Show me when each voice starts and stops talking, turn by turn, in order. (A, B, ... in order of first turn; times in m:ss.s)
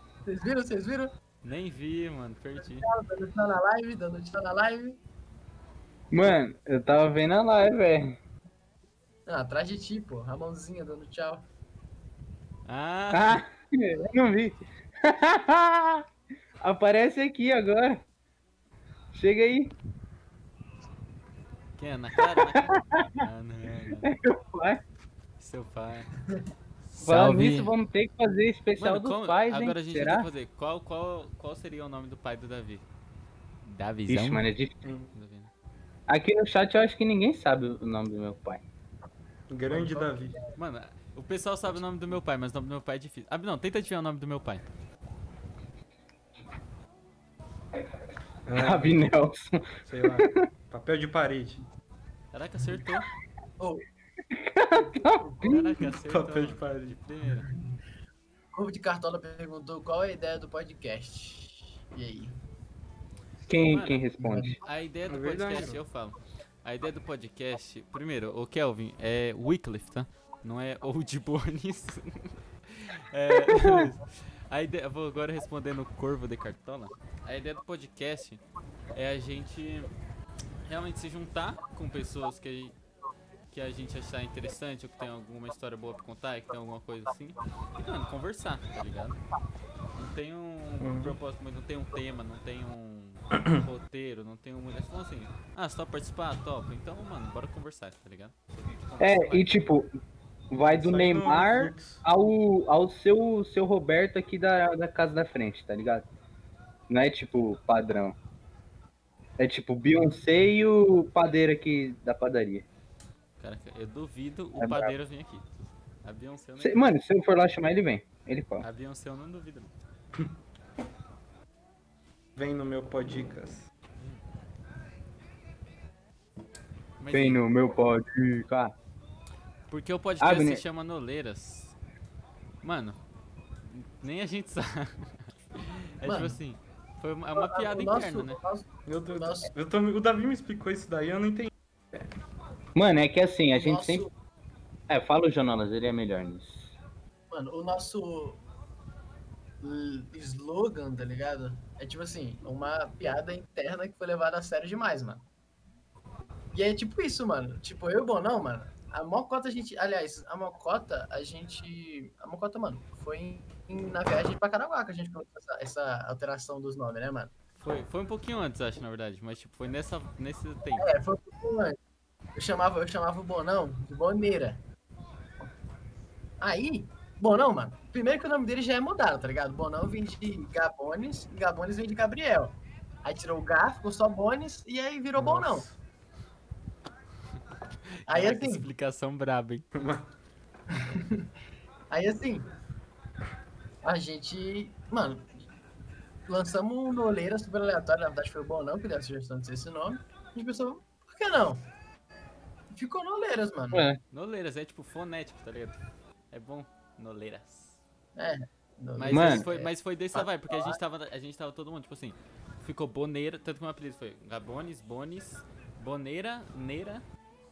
0:00.2-0:01.1 A
0:01.4-0:02.9 B
0:02.6-0:05.0 A
0:06.1-0:08.2 C
0:09.2-0:11.5 A
0:12.6-0:13.4 B
0:13.1-0:16.0 C
0:16.6-0:18.0 C
0:19.1-0:19.7 C
0:21.8-0:24.1 B
0:22.4-0:23.2 C
0:24.0-0:24.8 C
0:25.4-0:26.1 B
0:26.9-0:27.7 B
0:27.0-0:30.3 C
0:28.8-0:32.8 B
0:33.6-0:34.4 B
0:34.1-0:34.7 C
0:34.8-0:35.1 D
0:35.1-0:35.5 B
0:36.1-0:38.6 C
0:39.5-0:40.4 D
0:39.7-0:40.6 A
0:40.6-0:44.7 B
0:48.4-0:49.1 D
0:48.5-0:50.4 C
0:49.8-0:51.6 D
0:52.3-0:53.1 B
0:53.6-0:53.8 A
0:54.3-0:55.9 C
0:54.7-0:55.4 A
0:55.4-0:57.5 B
0:56.1-0:57.0 D
0:58.5-1:02.4 A
1:03.5-1:04.6 C
1:03.7-1:04.0 B
1:04.2-1:04.6 A
1:04.6-1:19.9 B
1:05.1-1:05.8 D
1:13.5-1:13.9 C
1:20.6-1:22.8 B
1:23.5-1:29.2 B
1:29.9-1:39.6 B
1:30.8-1:31.2 D
1:39.0-1:39.9 C
1:40.5-1:46.0 C
1:40.5-1:42.0 D
1:46.9-1:48.2 C
1:49.4-1:52.6 C
1:53.4-1:56.9 B
1:54.6-1:54.9 C
1:56.6-1:58.6 C
1:58.6-1:59.7 B
2:02.4-2:03.7 D
2:07.0-2:07.4 B
2:07.1-2:08.7 C
2:09.7-2:11.7 B
2:10.2-2:10.6 C
2:12.6-2:13.0 B
2:13.6-2:18.4 B
2:16.0-2:16.4 A
2:17.3-2:19.5 A
2:18.9-2:22.0 D
2:22.7-2:24.1 C
2:23.5-2:24.1 A
2:24.9-2:26.7 C
2:27.3-2:28.4 A
2:29.6-2:35.2 A
2:36.5-2:47.3 A
2:47.6-2:50.9 B
2:50.8-2:51.8 A
2:52.3-2:54.6 A
2:56.4-3:05.6 A
3:05.1-3:05.8 D
3:08.1-3:09.7 B
3:08.1-3:08.7 A
3:09.7-3:10.1 D
3:10.7-3:11.3 A
3:11.9-3:12.5 A
3:13.8-3:15.4 A
3:16.3-3:21.7 A
3:22.7-3:23.9 A
3:23.7-3:24.0 C
3:24.1-3:25.8 B
3:26.3-3:27.8 B
3:28.2-3:30.8 A
3:29.0-3:37.0 B
3:29.1-3:29.5 C